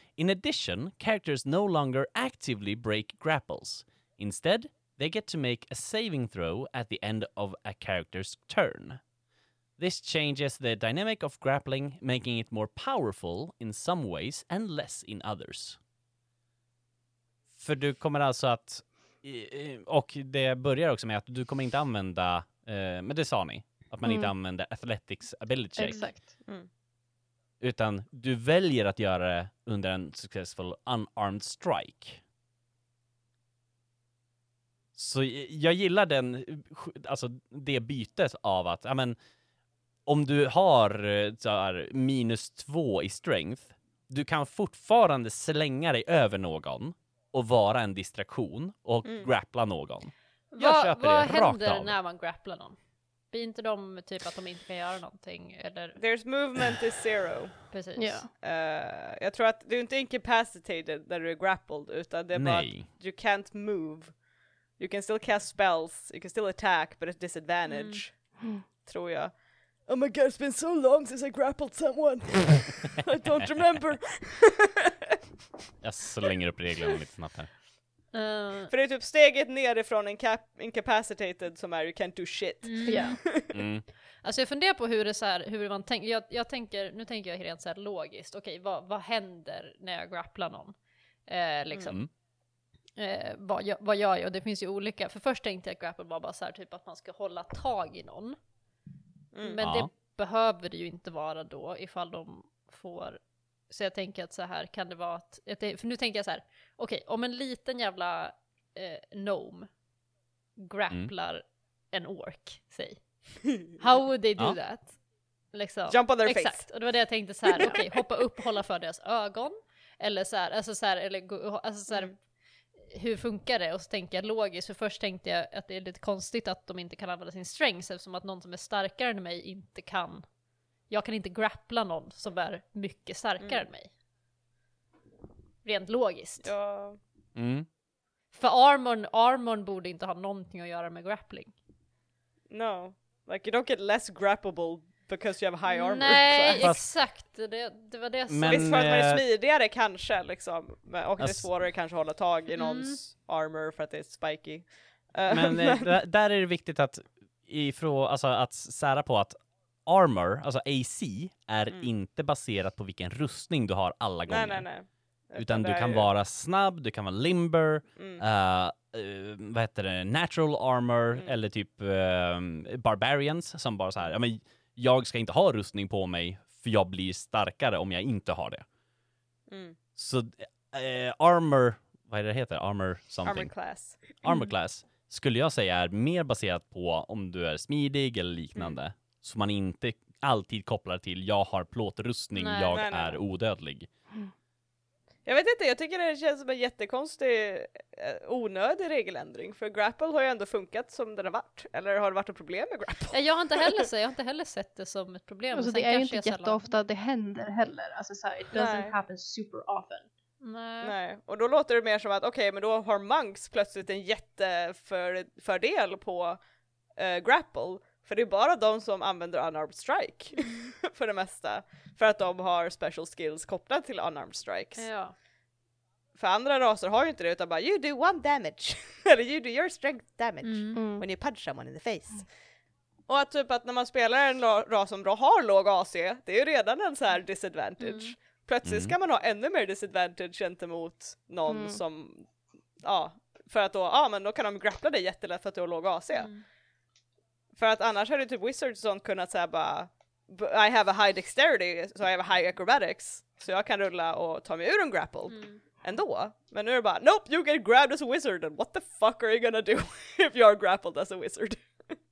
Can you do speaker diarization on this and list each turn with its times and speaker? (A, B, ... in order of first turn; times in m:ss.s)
0:00.2-0:09.0 A
0:09.8-0:15.8 A
0:17.5-0:26.1 A
0:24.0-0:24.3 B
0:25.8-0:26.3 B
0:25.8-0:26.1 C
0:27.6-0:32.2 A
0:35.0-0:39.2 A
0:40.1-0:51.9 A
0:49.0-0:49.3 D
0:50.5-0:52.8 C
0:53.3-0:56.0 C
0:56.0-0:57.6 D
0:57.7-0:58.2 C
0:58.0-0:58.3 B
0:58.4-1:04.2 D
1:02.3-1:02.9 A
1:04.8-1:14.8 D
1:07.7-1:08.0 C
1:15.8-1:17.5 A
1:18.1-1:18.7 C
1:18.7-1:23.6 D
1:22.6-1:23.2 C
1:22.9-1:23.2 B
1:23.5-1:23.8 A
1:24.2-1:32.0 C
1:33.0-1:38.4 C
1:39.3-1:39.6 D
1:39.4-1:49.7 C
1:39.6-1:39.9 A
1:50.6-1:55.0 C
1:55.5-2:02.2 C
1:55.9-1:56.8 D
1:57.5-1:57.8 D
2:02.8-2:10.3 C
2:10.9-2:13.9 C
2:13.4-2:13.7 D
2:15.6-2:16.5 C
2:16.4-2:17.0 D
2:17.4-2:17.7 A
2:18.3-2:21.5 C
2:22.5-2:26.8 D
2:25.7-2:28.8 C
2:26.6-2:26.8 A
2:28.3-2:29.2 A
2:28.5-2:35.9 D
2:31.2-2:31.4 A
2:32.6-2:33.0 C
2:35.3-2:44.7 A
2:44.3-2:46.1 D
2:45.4-2:58.6 A
2:48.0-2:48.2 D
2:59.5-2:59.8 D
3:00.0-3:03.5 A
3:03.2-3:04.1 D
3:04.2-3:13.9 A
3:04.3-3:04.5 C
3:12.4-3:12.8 C
3:12.7-3:13.2 D
3:15.2-3:23.9 D
3:23.1-3:26.7 C
3:25.5-3:30.1 B
3:28.5-3:29.0 D
3:30.4-3:31.0 C
3:30.8-3:36.4 D
3:37.0-3:44.9 D
3:40.3-3:40.7 C
3:44.8-3:45.2 C
3:46.2-3:52.3 D
3:50.4-3:50.8 C
3:50.8-3:51.0 B
3:53.1-4:02.3 D
3:57.8-3:58.1 C
3:58.6-3:59.0 A
4:01.5-4:01.8 B
4:02.8-4:06.3 D
4:06.1-4:06.4 C
4:07.5-4:21.7 D
4:15.3-4:15.6 C